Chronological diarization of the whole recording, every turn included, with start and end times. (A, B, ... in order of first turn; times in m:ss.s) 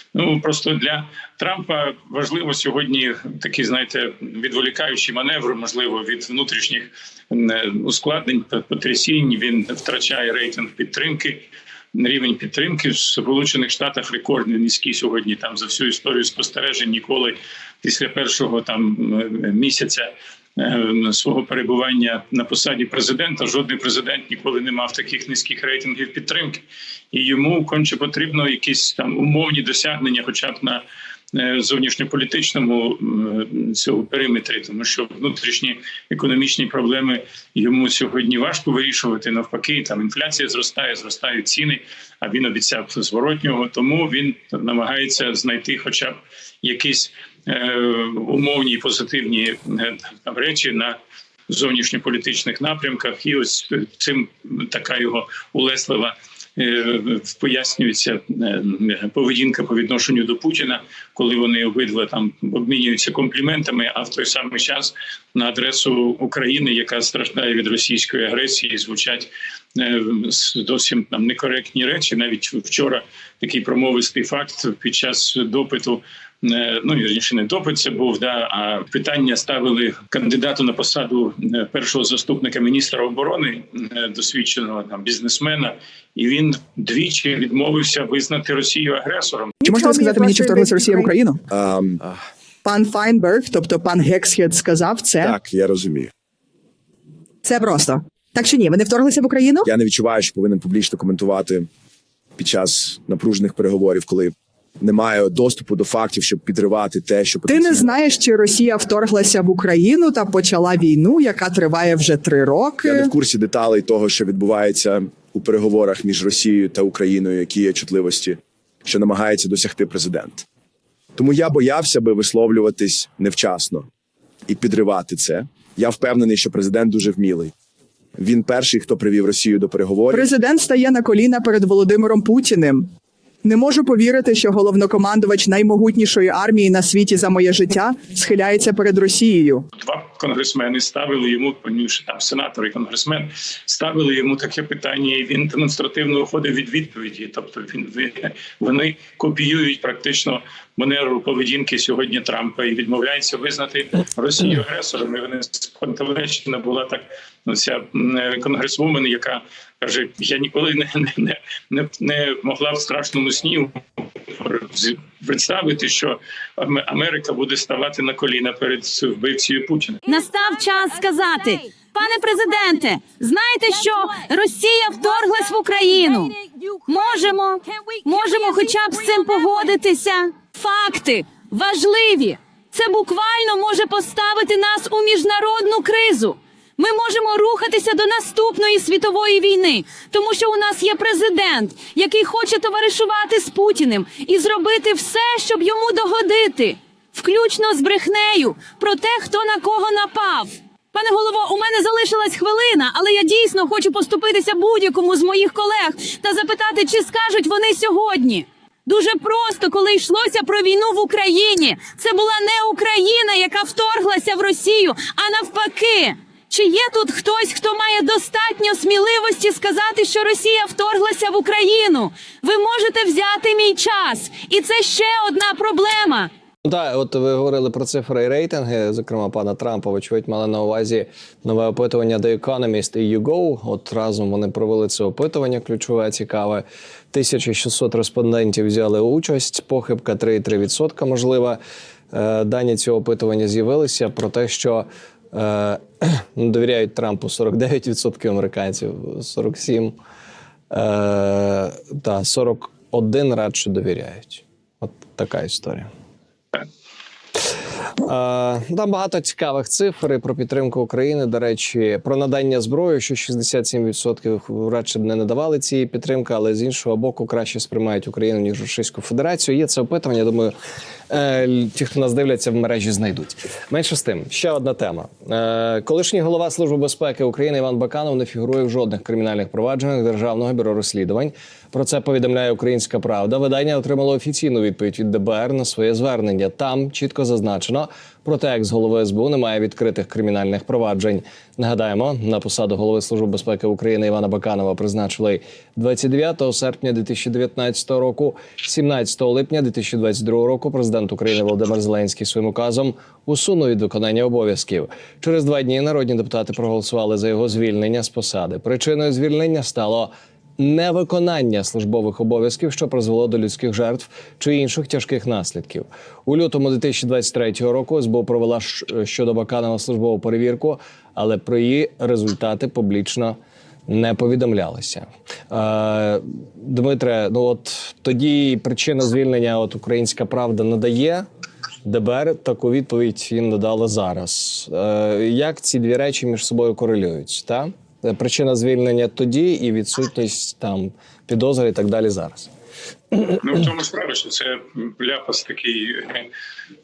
0:00.1-0:51.0 A
0:51.5-1:29.6 A
1:29.6-1:31.4 B
1:31.5-1:32.2 C
1:32.6-1:35.4 B
1:35.2-1:36.1 C
1:37.4-1:39.7 B
1:39.6-1:41.7 C
1:42.4-1:47.9 C
1:47.5-1:53.1 B
1:52.8-2:00.5 C
2:01.2-2:03.9 C
2:04.5-2:07.5 C
2:08.2-2:10.3 C
2:10.1-2:12.9 B
2:13.4-2:19.6 B
2:19.8-2:50.0 A
2:50.1-3:46.3 D
3:46.6-4:01.6 E
4:02.1-4:10.0 E
4:10.7-4:15.9 E
4:18.0-4:30.5 E
4:31.1-5:23.4 E
5:23.9-5:31.2 E
5:31.8-5:42.5 E
5:43.2-5:46.3 A